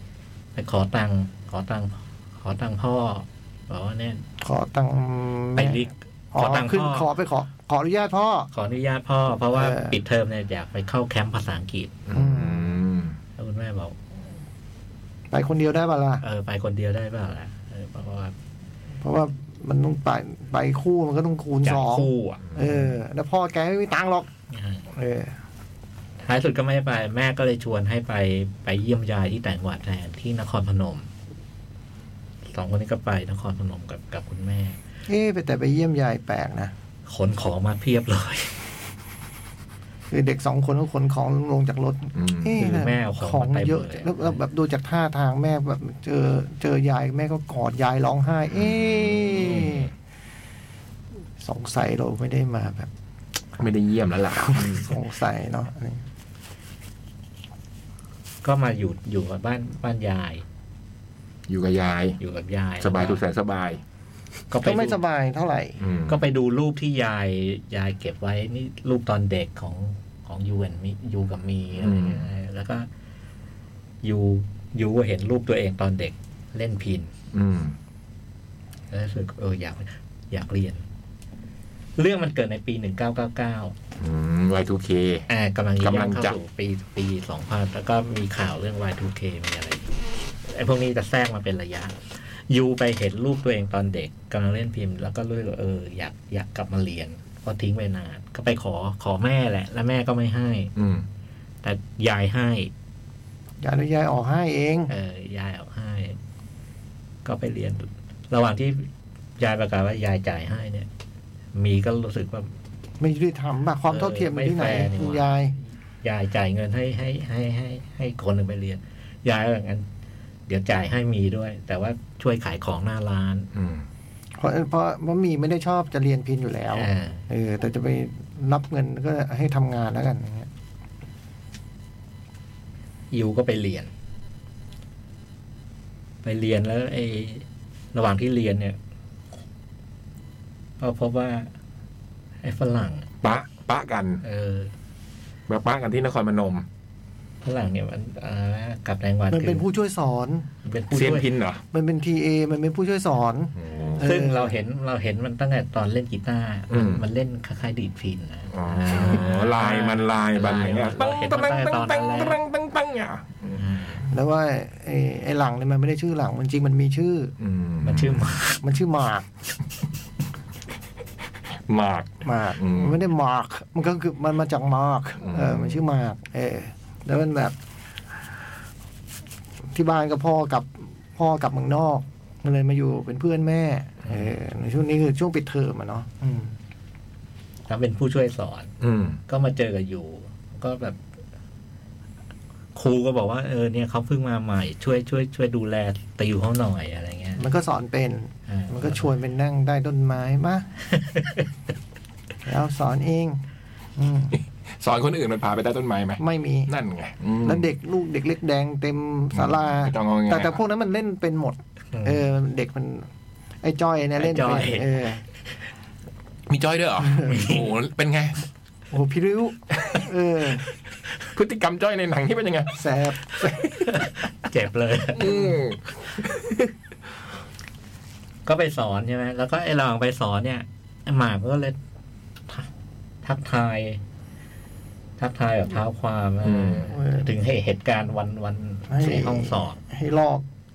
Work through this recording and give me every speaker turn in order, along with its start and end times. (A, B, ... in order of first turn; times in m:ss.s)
0:00.6-0:04.2 A
0:04.4-0:05.8 B
0:05.6-0:07.1 A
0:06.3-0:08.5 B
0:08.5-0:12.0 A
0:09.5-0:09.9 B
0:12.1-0:13.2 C
0:12.1-0:12.8 B
0:13.4-0:14.0 A
0:15.3-0:16.2 B
0:16.2-0:18.4 A
0:19.0-0:24.3 B
0:21.6-0:22.6 A
0:24.5-0:24.8 A
0:24.9-0:25.4 B
0:26.2-0:31.1 A
0:32.5-0:34.8 A
0:35.1-0:36.7 B
0:37.1-0:38.6 A
0:40.1-0:49.9 B
0:42.2-0:42.6 C
0:42.6-0:44.4 A
0:48.5-0:49.9 C
0:51.4-0:52.9 B
0:53.6-0:54.9 C
0:54.3-0:56.0 B
0:58.4-1:00.4 A
1:01.5-1:02.2 C
1:02.2-1:03.2 A
1:02.8-1:03.8 C
1:04.5-1:05.0 A
1:04.6-1:05.8 B
1:05.8-1:06.2 C
1:06.1-1:12.9 A
1:11.8-1:12.2 C
1:14.0-1:17.1 A
1:17.3-1:17.8 C
1:18.9-1:20.8 A
1:22.0-1:23.7 A
1:24.0-1:25.3 C
1:25.3-1:29.9 A
1:25.8-1:26.4 C
1:30.5-1:40.7 A
1:40.8-1:41.1 C
1:41.6-1:42.7 A
1:43.6-1:44.9 B
1:44.9-1:46.2 A
1:47.2-1:50.9 A
1:51.5-1:52.6 A
1:53.0-1:55.6 B
1:53.9-1:59.9 A
2:00.5-2:03.5 A
2:03.5-2:03.9 C
2:04.4-2:10.5 B
2:06.8-2:07.2 A
2:13.1-2:13.9 A
2:16.2-2:18.8 A
2:20.8-2:21.5 A
2:22.4-2:23.1 A
2:23.2-2:24.2 C
2:24.2-2:24.7 A
2:25.5-2:26.7 C
2:27.4-2:29.6 A
2:29.3-2:30.5 B
2:30.6-2:31.3 A
2:30.9-2:31.6 C
2:31.7-2:34.6 B
2:33.6-2:34.1 C
2:34.0-2:42.4 A
2:36.7-2:37.0 C
2:38.5-2:43.6 C
2:43.6-2:44.1 A
2:44.0-2:47.3 B
2:47.4-2:48.3 C
2:47.8-2:48.6 A
2:48.6-2:49.2 B
2:51.7-2:53.0 C
2:52.2-2:57.6 B
2:55.2-2:55.8 C
2:59.7-3:06.5 B
3:04.0-3:04.3 A
3:07.7-3:08.7 A
3:08.8-3:09.2 C
3:09.3-3:11.0 A
3:12.8-3:17.4 A
3:17.4-3:20.7 B
3:18.5-3:19.1 A
3:20.9-3:21.4 A
3:22.4-3:23.4 B
3:24.0-3:24.4 B
3:24.4-3:27.7 C
3:26.2-3:26.7 B
3:27.4-3:33.1 B
3:29.3-3:30.6 C
3:31.9-3:32.3 A
3:33.6-3:35.2 B
3:34.2-3:34.9 A
3:36.5-3:38.4 C
3:37.0-3:37.6 B
3:38.9-3:40.6 B
3:41.2-3:42.8 C
3:42.7-3:43.4 B
3:43.4-3:43.8 C
3:43.9-3:45.5 A
3:45.2-3:46.7 C
3:48.5-3:51.8 A
3:53.2-3:54.0 A
3:55.2-3:59.8 A
3:56.4-3:56.9 C
3:56.9-3:57.3 B
3:58.9-4:00.4 B